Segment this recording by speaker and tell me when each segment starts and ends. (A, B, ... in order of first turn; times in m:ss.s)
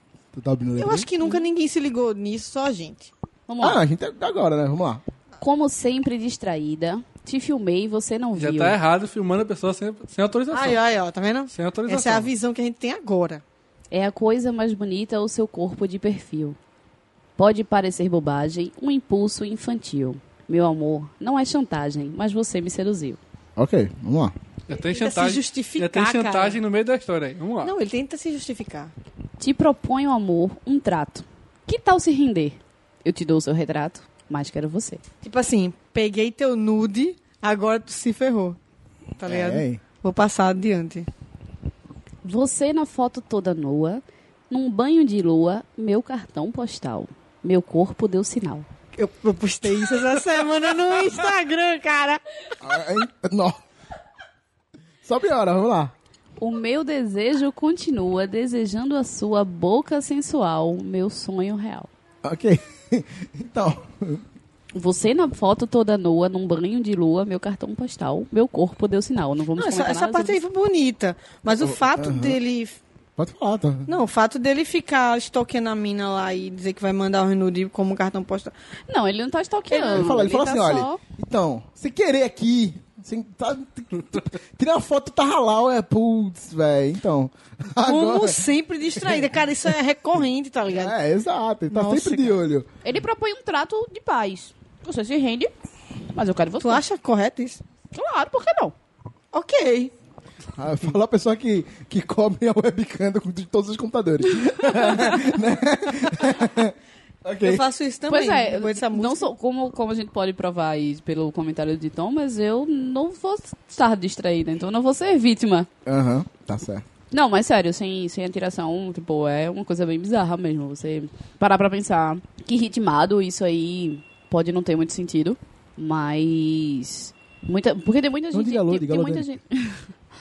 0:00.3-0:01.1 A
0:00.8-0:03.1 B
0:03.5-0:03.8 C
0:03.6-0:05.0 A
0:05.4-0:08.8 C
0:08.4-0:10.8 D
0:10.5-0:13.4 B
0:11.5-0:12.3 D
0:13.9-0:16.6 C
0:17.4-0:23.2 C
0:23.6-0:24.3 A
0:24.7-0:27.8 D
0:24.8-0:26.6 B
0:27.6-0:28.9 B
0:29.4-0:35.0 C
0:35.2-0:38.6 B
0:39.2-0:41.1 B
0:39.2-0:39.8 A
0:42.2-0:48.6 C
0:49.0-0:52.2 B
0:52.6-0:53.6 A
0:55.0-0:55.9 A
0:56.4-1:01.9 C
1:02.2-1:04.2 A
1:04.7-1:10.4 C
1:09.6-1:12.8 B
1:11.6-1:12.4 A
1:13.2-1:14.0 A
1:13.9-1:18.5 B
1:18.9-1:21.0 C
1:19.7-1:20.1 B
1:19.9-1:29.4 A
1:27.8-1:30.9 B
1:30.7-1:32.7 A
1:31.7-1:32.4 B
1:32.8-1:35.5 C
1:36.1-1:36.8 C
1:36.6-1:37.6 B
1:37.9-1:38.7 C
1:39.3-1:39.9 B
1:40.6-1:47.6 A
1:47.4-1:49.3 B
1:48.1-1:55.7 C
1:55.8-1:56.8 A
1:57.1-2:09.8 C
2:08.3-2:09.4 A